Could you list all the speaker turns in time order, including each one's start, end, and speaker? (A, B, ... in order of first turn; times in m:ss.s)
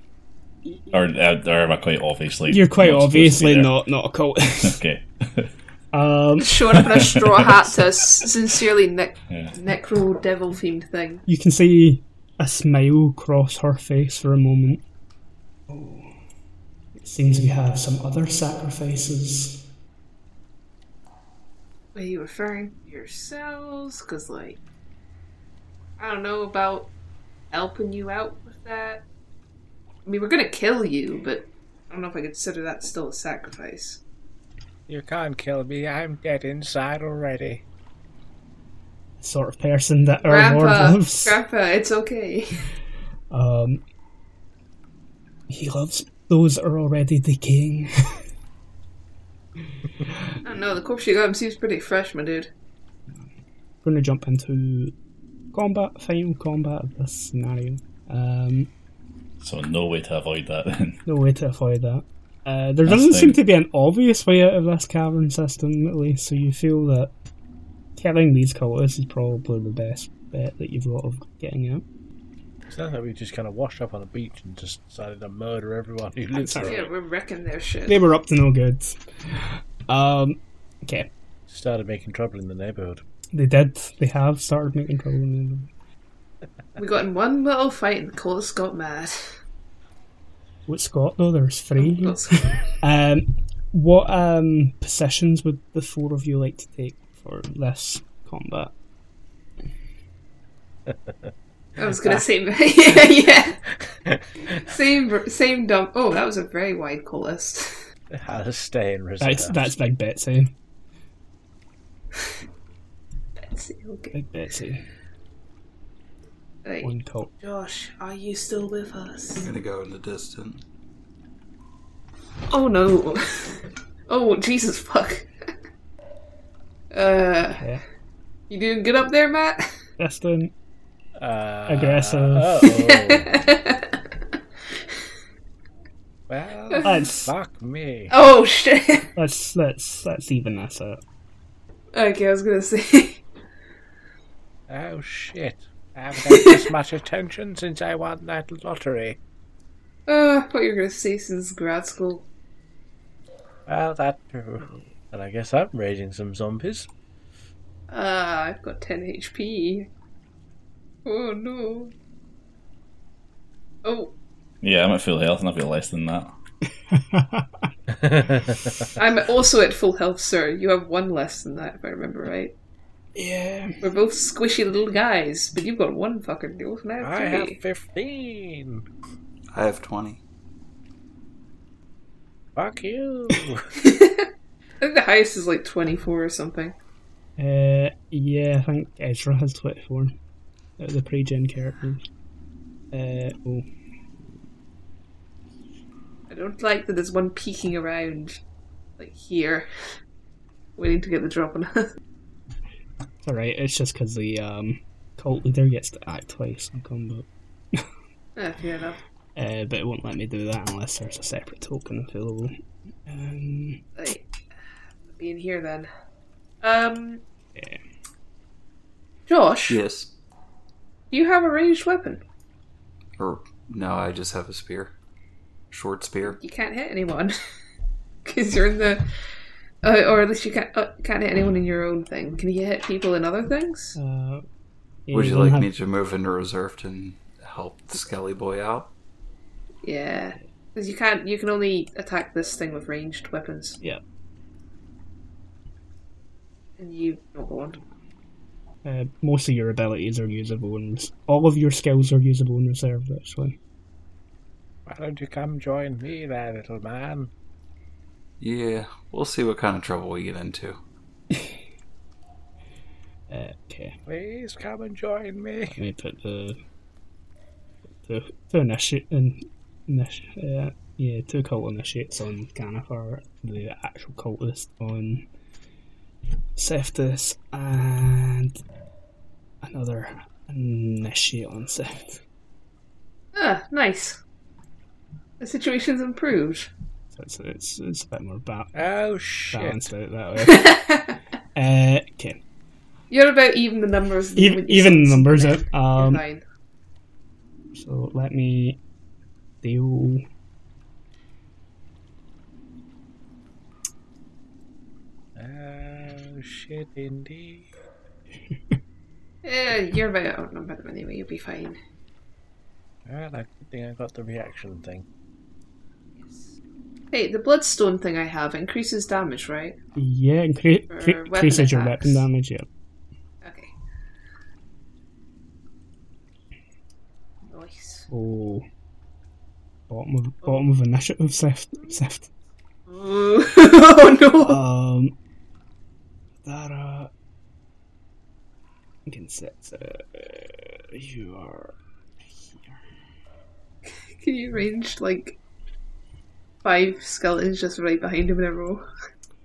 0:00.9-0:03.8 A
0:02.5-0:04.8 B
0:04.6-0:05.5 A
0:05.9-0:06.8 B
0:06.4-0:11.2 C
0:06.8-0:07.6 A
0:11.3-0:14.8 B
0:15.7-0:16.1 B
0:17.0-0:19.6 B
0:22.0-0:24.6 C
0:26.0-0:26.9 C
0:27.5-0:29.0 C
0:30.1-0:34.0 C
0:34.9-0:37.6 D
0:39.2-0:41.4 B
0:40.3-0:42.7 C
0:43.3-0:43.8 B
0:45.5-0:47.9 B
0:50.4-0:52.5 C
0:53.8-0:54.9 B
0:55.5-0:58.7 B
0:59.4-1:01.0 A
1:01.1-1:07.1 B
1:02.9-1:03.4 A
1:08.0-1:11.8 B
1:12.7-1:16.9 D
1:16.3-1:16.8 B
1:16.6-1:18.0 C
1:17.9-1:21.1 B
1:21.5-1:23.0 D
1:23.3-1:25.7 B
1:26.8-1:29.4 C
1:30.7-1:32.2 B
1:31.8-1:32.7 C
1:32.8-1:38.7 B
1:40.9-1:41.2 D
1:41.8-1:43.6 C
1:43.8-1:44.6 D
1:44.6-1:47.8 C
1:48.1-1:49.7 D
1:49.2-1:50.5 B
1:53.4-1:54.2 C
1:54.1-1:54.8 B
1:56.6-1:59.5 C
1:56.8-1:57.3 B
1:59.4-2:00.6 E
2:02.5-2:05.3 C
2:06.9-2:07.6 C
2:08.5-2:09.7 C
2:10.0-2:10.5 B
2:11.2-2:13.4 D
2:11.7-2:12.7 B
2:12.6-2:14.0 C
2:16.3-2:18.1 D
2:16.7-2:17.2 C
2:16.8-2:17.3 B
2:18.1-2:19.1 C
2:19.2-2:21.0 B
2:21.9-2:23.2 C
2:24.7-2:29.2 D
2:26.3-2:26.6 C
2:30.1-2:32.3 C
2:33.7-2:36.9 D
2:37.9-2:39.9 C
2:41.0-2:41.9 C
2:43.8-2:44.2 C
2:44.6-2:46.3 A
2:46.9-2:47.7 B
2:47.9-2:48.9 D
2:49.0-2:52.5 C
2:53.2-2:53.8 B
2:53.8-2:57.6 C
2:57.0-2:58.8 D
2:59.5-3:00.2 E
3:02.6-3:03.7 D
3:03.8-3:04.3 C
3:04.8-3:06.8 C
3:07.4-3:10.1 B
3:10.8-3:12.0 B
3:12.9-3:13.7 B
3:16.3-3:18.4 C
3:19.0-3:19.7 C
3:20.8-3:21.9 C
3:23.2-3:27.9 B
3:28.4-3:29.0 C
3:29.4-3:32.5 B
3:33.1-3:33.8 B
3:34.0-3:34.3 C
3:35.0-3:35.9 C
3:36.6-3:37.2 C
3:39.3-3:39.8 C
3:39.7-3:40.1 E
3:41.1-3:42.2 C
3:43.2-3:44.9 E
3:45.7-3:46.4 E
3:46.2-3:47.3 C
3:48.2-3:49.1 C
3:49.8-3:54.0 C
3:54.0-3:54.4 B
3:55.1-3:55.7 B
3:55.1-3:58.9 E
3:59.8-4:03.8 C
4:06.8-4:07.8 C
4:08.8-4:13.6 B
4:14.9-4:17.3 D
4:18.4-4:20.8 E
4:23.3-4:24.0 B
4:24.1-4:25.8 D
4:25.8-4:26.6 B
4:28.0-4:35.3 B
4:36.6-4:38.6 B
4:39.6-4:42.2 B
4:43.4-4:44.2 C
4:45.4-4:46.7 C
4:47.1-4:48.7 B
4:48.8-4:49.9 D
4:49.5-4:50.9 B
4:50.4-4:51.2 C
4:51.6-4:52.4 B
4:53.1-4:56.4 C
4:54.4-4:56.2 B
4:57.7-4:58.8 B
4:59.6-5:00.2 B
5:05.4-5:07.7 D
5:09.4-5:11.8 C
5:13.1-5:15.1 D
5:16.2-5:16.5 C
5:17.1-5:19.8 C
5:20.0-5:22.7 B
5:20.9-5:22.3 C
5:23.4-5:23.7 C
5:27.4-5:28.1 C
5:28.1-5:28.6 B
5:29.9-5:32.3 B
5:32.9-5:34.6 C
5:34.4-5:35.2 B
5:36.4-5:37.1 B
5:39.1-5:41.8 B
5:42.3-5:42.8 B
5:43.8-5:45.4 C
5:46.6-5:48.8 C